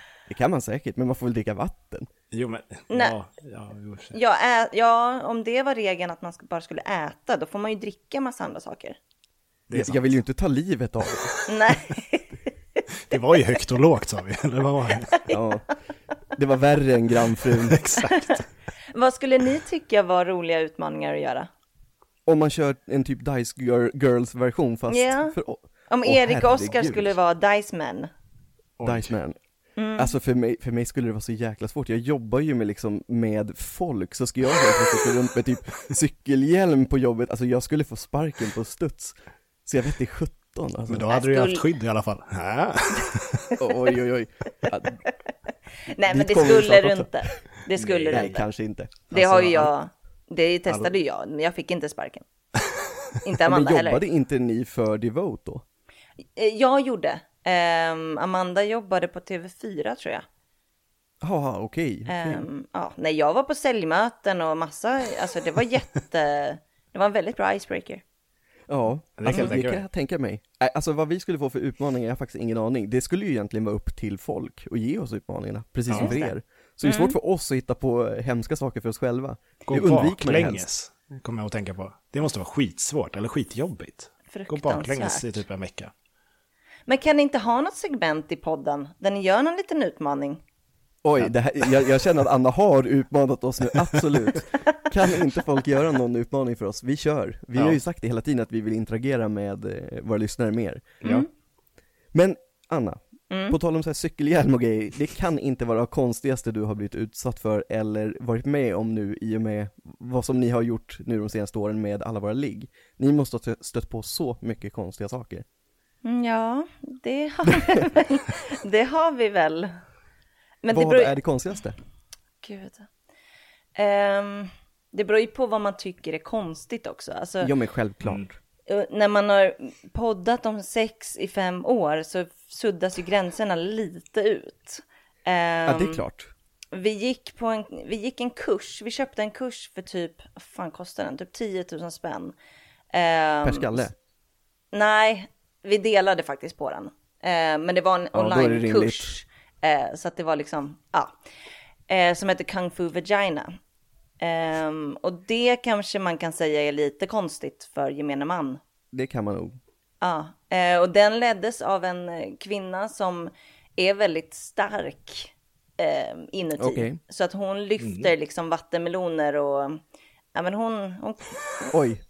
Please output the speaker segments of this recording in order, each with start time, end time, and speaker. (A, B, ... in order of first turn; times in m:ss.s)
0:00.3-0:02.1 A
0:02.3-0:04.1 B
0:02.9-0:03.2 C
0:04.1-0:09.0 C
0:09.7-0:10.1 B
0:09.7-0:11.3 A
0:11.5-0:12.3 C
0:13.1-0:15.2 B
0:15.3-0:15.6 A
0:16.3-0:17.8 A
0:17.4-0:18.5 B
0:18.9-0:21.5 C
0:22.2-0:27.1 A
0:24.9-0:25.4 C
0:25.9-0:28.1 C
0:28.8-0:29.1 B
0:28.8-0:29.4 A
0:29.8-0:30.1 C
0:30.0-0:39.1 A
0:39.6-0:41.1 A
0:40.9-0:43.6 B
0:41.1-0:41.6 C
0:43.6-0:45.0 A
0:45.8-0:48.4 C
0:46.1-0:47.3 A
0:47.8-0:48.4 B
0:48.1-0:49.7 A
0:49.1-0:52.2 C
0:49.3-0:49.6 B
0:53.2-0:54.0 C
0:53.4-0:55.6 A
0:56.4-1:00.2 C
1:01.2-1:02.4 A
1:02.1-1:08.0 C
1:08.7-1:20.6 A
1:09.2-1:09.8 B
1:15.9-1:17.2 C
1:19.7-1:25.9 B
1:24.3-1:25.4 C
1:26.9-1:30.4 C
1:31.0-1:41.1 A
1:41.0-1:41.3 C
1:42.1-1:55.4 A
1:43.3-1:43.6 C
1:56.0-1:59.7 C
1:57.5-1:57.8 A
2:00.6-2:01.2 C
2:00.7-2:01.8 A
2:02.4-2:02.9 C
2:03.8-2:07.5 C
2:07.4-2:08.3 A
2:08.7-2:16.0 C
2:15.6-2:16.3 A
2:16.7-2:22.3 C
2:22.9-2:23.8 C
2:23.4-2:23.9 A
2:24.7-2:31.1 C
2:28.1-2:29.2 A
2:31.9-2:33.5 C
2:34.2-2:38.6 C
2:38.9-2:39.6 A
2:40.0-2:49.8 C
2:46.6-2:47.0 A
2:47.8-2:48.1 B
2:50.3-2:51.7 C
2:51.7-2:52.0 A